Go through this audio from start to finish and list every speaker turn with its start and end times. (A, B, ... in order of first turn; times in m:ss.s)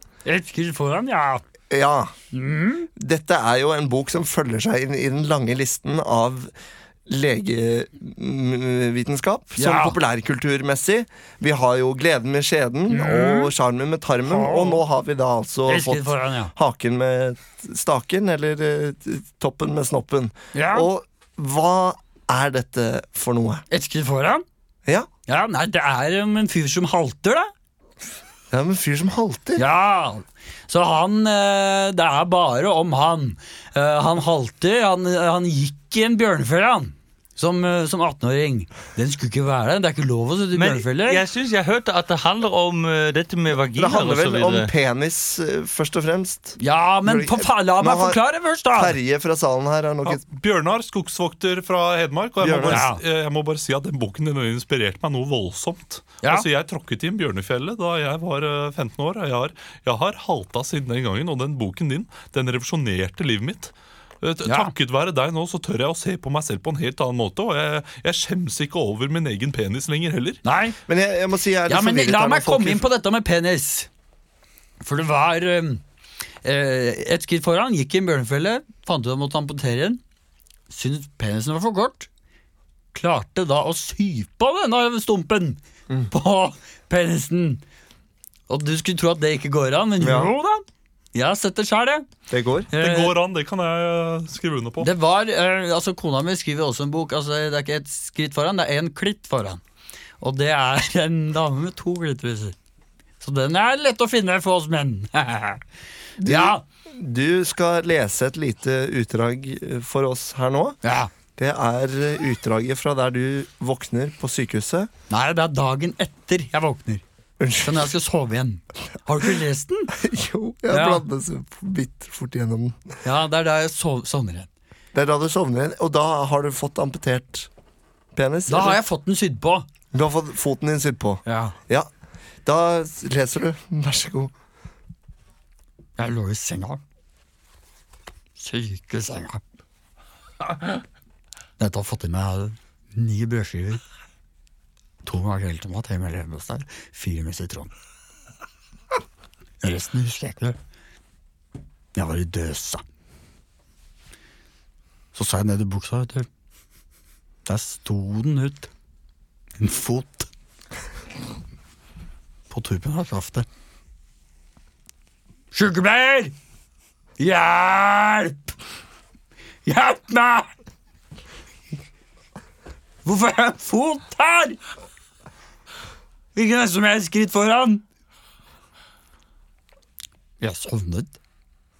0:00.2-0:01.4 A
0:01.7-0:02.1 B
0:02.3-0:02.9 A
0:03.0-0:06.5 B
0:07.1-0:23.6 B
0:09.6-0:10.0 A
0:12.9-0:13.5 A
0:14.2-0:14.8 A
0:15.7-0:16.5 A
0:20.5-0:20.9 A
0:23.7-0:24.4 A
0:25.3-0:27.5 A
0:28.5-0:29.6 B
0:29.6-0:41.2 A
0:40.5-0:44.7 C
0:43.6-0:50.2 B
0:46.6-0:49.0 A
0:50.0-1:10.4 D
0:52.4-0:52.9 B
0:52.7-0:53.0 A
1:04.4-1:04.7 A
1:10.4-1:10.8 A
1:10.9-1:12.8 B
1:11.7-1:13.9 A
1:14.8-1:15.8 A
1:16.4-1:20.0 A
1:20.7-1:22.1 A
1:22.9-1:25.6 A
1:26.1-1:27.6 A
1:28.5-1:32.0 A
1:30.0-1:30.3 B
1:32.3-1:32.7 B
1:32.7-1:33.2 A
1:32.7-1:34.9 D
1:34.8-1:39.6 A
1:40.2-1:42.6 A
1:43.2-1:45.6 A
1:46.2-1:46.6 A
1:46.2-1:50.8 B
1:50.8-1:51.1 A
1:51.4-1:54.9 B
1:55.1-1:57.0 A
1:57.4-1:57.9 B
1:57.6-1:59.9 A
1:59.9-2:02.8 B
2:00.7-2:01.0 A
2:03.0-2:04.5 A
2:04.9-2:07.5 B
2:08.1-2:08.8 B
2:08.5-2:09.7 A
2:09.9-2:11.9 B
2:11.2-2:11.6 A
2:12.4-2:14.3 B
2:16.0-2:16.8 A
2:18.4-2:19.4 A
2:21.6-2:23.8 A
2:25.0-2:27.7 A
2:29.6-2:30.6 A
2:31.9-2:32.8 A
2:35.1-2:36.3 A
2:37.4-2:38.7 A
2:39.6-2:40.3 A
2:42.5-2:43.4 A
2:45.5-2:46.3 A
2:47.2-2:48.5 A
2:49.6-2:50.5 A
2:53.0-2:54.6 A
2:56.3-2:57.8 A
3:00.4-3:01.2 A